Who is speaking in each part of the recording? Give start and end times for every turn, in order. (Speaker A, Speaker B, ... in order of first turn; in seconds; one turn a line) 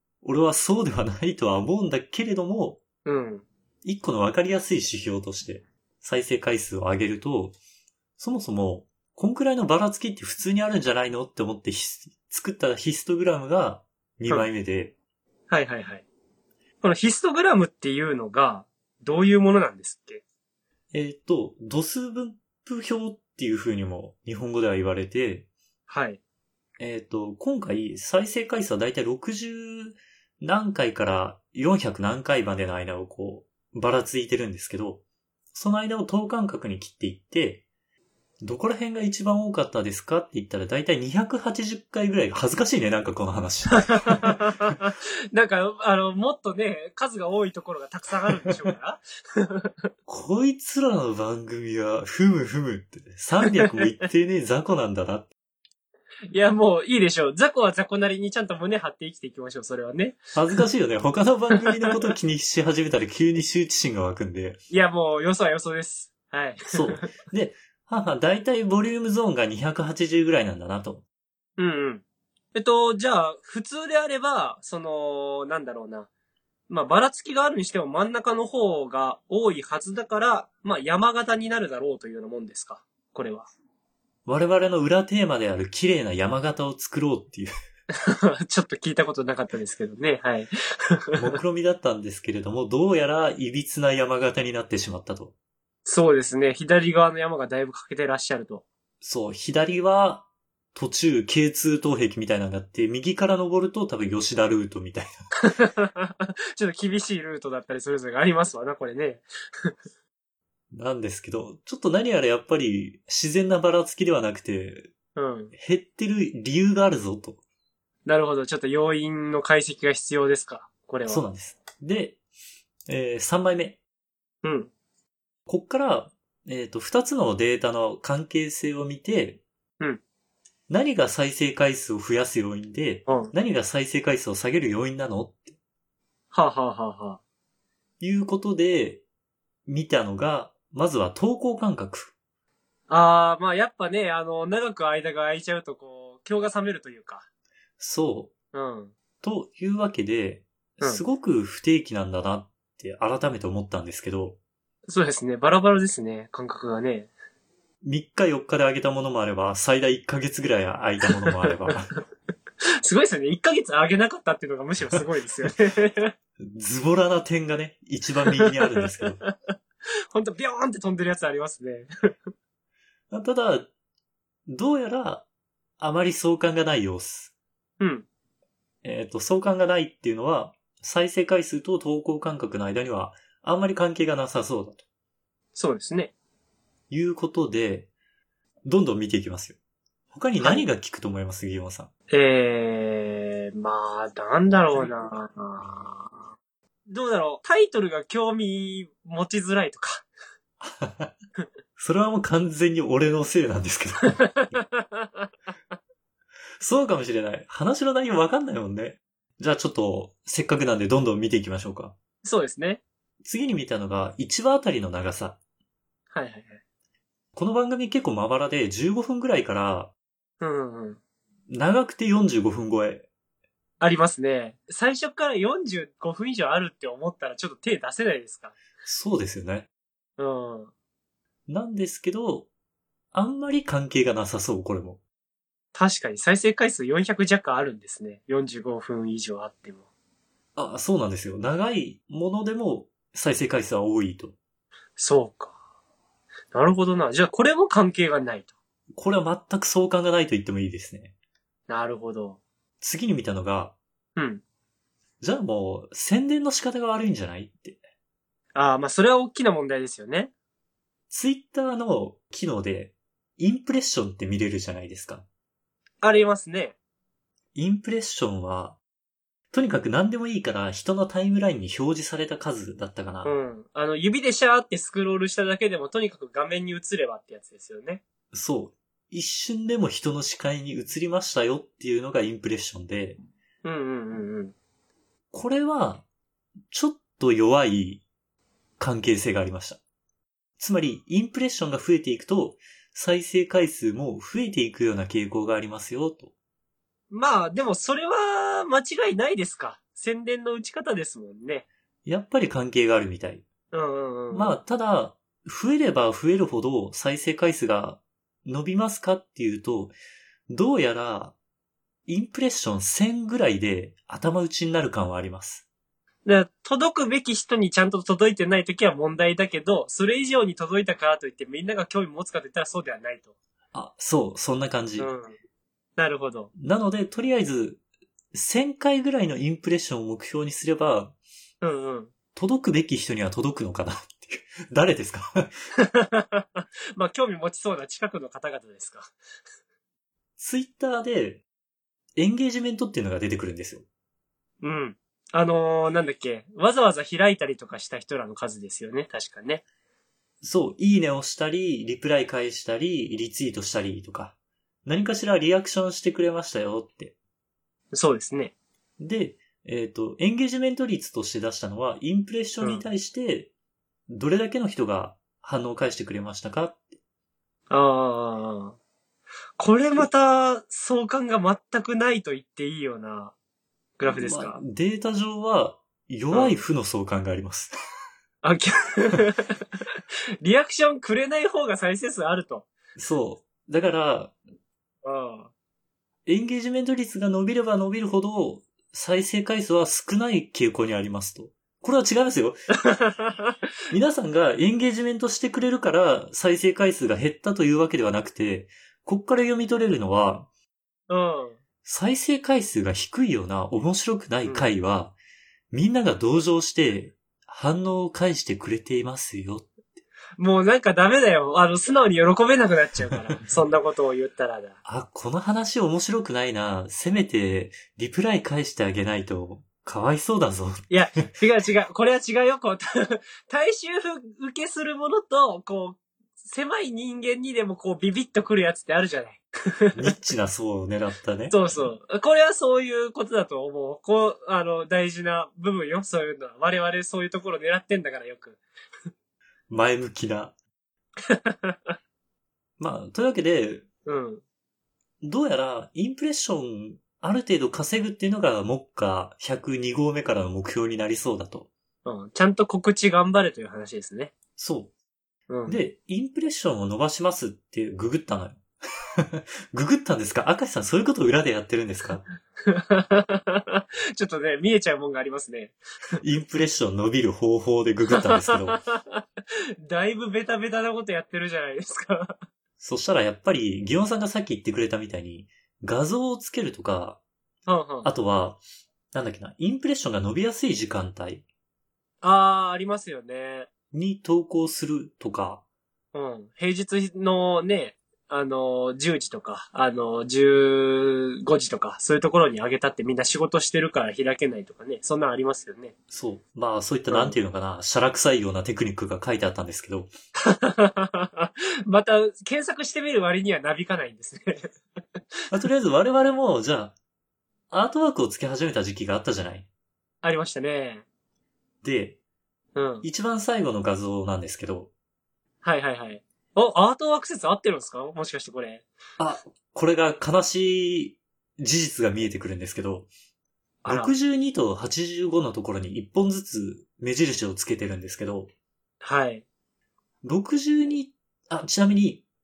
Speaker A: 0.2-2.8
Speaker B: 3.0-3.4
Speaker A: 3.8-7.5
Speaker A: 8.2-14.9
Speaker B: 15.5-16.0
Speaker B: 16.8-20.2
Speaker A: 20.9-25.5
Speaker B: 25.9-26.2
Speaker A: 26.8-35.0
Speaker A: 35.5-37.6
Speaker A: 38.4-44.4
Speaker B: 44.0-49.9
Speaker A: 50.0-55.3
Speaker B: 56.3-60.3
Speaker A: 60.3-64.6
Speaker B: 64.7-67.0
Speaker A: 66.7-71.0
Speaker B: 71.6-72.0
Speaker B: 72.5-76.1
Speaker B: 76.7-83.5
Speaker A: 84.2-87.5
Speaker B: 88.0-91.4
Speaker A: 91.2-95.3
Speaker B: 95.8-98.6
Speaker A: 99.0-105.2
Speaker B: 105.4-109.7
Speaker A: 110.7-114.9
Speaker B: 115.2-115.5
Speaker A: 115.5-117.4
Speaker B: 118.0-121.2
Speaker A: 121.1-122.2
Speaker A: 122.9-123.8
Speaker B: 124.4-124.7
Speaker A: 125.5-129.4
Speaker A: 130.7-135.5
Speaker B: 133.1-133.3
Speaker B: 136.3-137.2
Speaker A: 138.0-139.0
Speaker A: 139.7-142.1
Speaker B: 142.9-147.2
Speaker A: 147.8-148.3
Speaker B: 148.5-148.9
Speaker A: 149.2-154.4
Speaker B: 154.9-157.1
Speaker A: 157.8-161.9
Speaker B: 161.4-161.7
Speaker B: 162.8-166.1
Speaker A: 166.4-169.2
Speaker B: 168.4-169.3
Speaker B: 170.1-171.9
Speaker A: 173.1-173.7
Speaker A: 174.5-175.2
Speaker A: 175.8-177.3
Speaker B: 177.8-178.1
Speaker A: 178.8-184.8
Speaker B: 185.5-186.1
Speaker A: 186.9-187.9
Speaker A: 188.6-189.6
Speaker A: 190.1-191.9
Speaker B: 190.4-190.6
Speaker B: 192.1-196.1
Speaker B: 196.9-200.0
Speaker A: 200.6-201.1
Speaker A: 201.8-204.6
Speaker B: 204.3-205.3
Speaker A: 206.6-211.9
Speaker B: 212.2-212.8
Speaker A: 213.2-215.4
Speaker B: 216.1-216.6
Speaker A: 217.3-219.9
Speaker B: 220.4-221.0
Speaker A: 221.5-223.1
Speaker B: 223.8-228.6
Speaker A: 228.8-229.7
Speaker B: 230.2-230.7
Speaker A: 231.5-232.5
Speaker A: 233.1-235.0
Speaker B: 235.7-239.8
Speaker A: 240.6-244.3
Speaker B: 245.0-245.5
Speaker B: 246.5-248.5
Speaker A: 248.9-251.1
Speaker B: 251.7-252.4
Speaker A: 252.8-253.8
Speaker B: 254.2-254.4
Speaker A: 255.2-257.8
Speaker B: 258.5-260.3
Speaker A: 261.1-265.2
Speaker B: 266.0-266.7
Speaker A: 267.5-268.8
Speaker A: 269.5-273.3
Speaker B: 273.2-278.0
Speaker A: 278.3-283.2
Speaker B: 283.6-284.5
Speaker A: 285.3-286.0
Speaker A: 286.7-288.0
Speaker A: 288.8-289.8
Speaker A: 290.6-296.3
Speaker B: 297.1-301.6
Speaker A: 302.1-303.4
Speaker B: 303.7-304.6
Speaker A: 304.3-309.9
Speaker A: 310.5-311.3
Speaker A: 312.1-315.6
Speaker B: 316.2-323.3
Speaker A: 323.7-325.1
Speaker B: 325.0-325.4
Speaker B: 326.0-326.5
Speaker A: 326.6-327.8
Speaker A: 328.3-331.1
Speaker B: 331.6-332.1
Speaker A: 332.3-335.5
Speaker B: 335.8-339.1
Speaker A: 340.4-341.4
Speaker A: 342.1-343.8
Speaker B: 344.6-349.6
Speaker A: 350.4-357.1
Speaker B: 357.9-358.5
Speaker A: 359.0-363.5
Speaker A: 364.1-366.9
Speaker B: 367.7-368.8
Speaker B: 369.6-373.3
Speaker B: 374.0-374.6
Speaker A: 374.1-377.7
Speaker B: 376.3-376.6
Speaker B: 378.4-379.8
Speaker B: 380.4-382.7
Speaker A: 382.9-384.3
Speaker B: 385.0-385.5
Speaker A: 386.2-392.7
Speaker B: 392.9-393.6
Speaker A: 393.9-400.5
Speaker B: 401.1-401.6
Speaker A: 401.8-405.1
Speaker A: 405.7-410.0
Speaker B: 410.4-414.8
Speaker A: 414.8-421.3
Speaker B: 420.9-430.0
Speaker A: 429.9-431.7
Speaker B: 431.5-438.6
Speaker A: 439.7-440.5
Speaker B: 441.3-441.9
Speaker A: 442.8-443.9
Speaker B: 444.0-444.4
Speaker A: 445.2-451.7
Speaker B: 452.0-454.3
Speaker A: 454.6-454.9
Speaker B: 455.5-455.8
Speaker A: 455.6-458.6
Speaker A: 459.2-462.2
Speaker B: 462.6-465.8
Speaker A: 466.2-468.8
Speaker B: 468.1-469.2
Speaker B: 469.8-472.4
Speaker A: 472.8-477.2
Speaker B: 477.7-478.1
Speaker A: 478.0-478.6
Speaker A: 479.1-481.4
Speaker B: 482.2-483.7
Speaker A: 483.9-485.6
Speaker B: 486.1-495.9
Speaker A: 496.1-500.1
Speaker B: 497.1-497.4
Speaker B: 500.4-505.2
Speaker A: 505.5-506.9
Speaker A: 507.7-509.7
Speaker B: 510.2-511.0
Speaker A: 511.8-512.2
Speaker B: 512.7-513.0
Speaker A: 513.0-514.9
Speaker B: 515.6-518.8
Speaker A: 519.2-523.1
Speaker B: 523.8-524.1
Speaker A: 523.9-528.5
Speaker B: 529.0-529.4
Speaker A: 530.2-532.2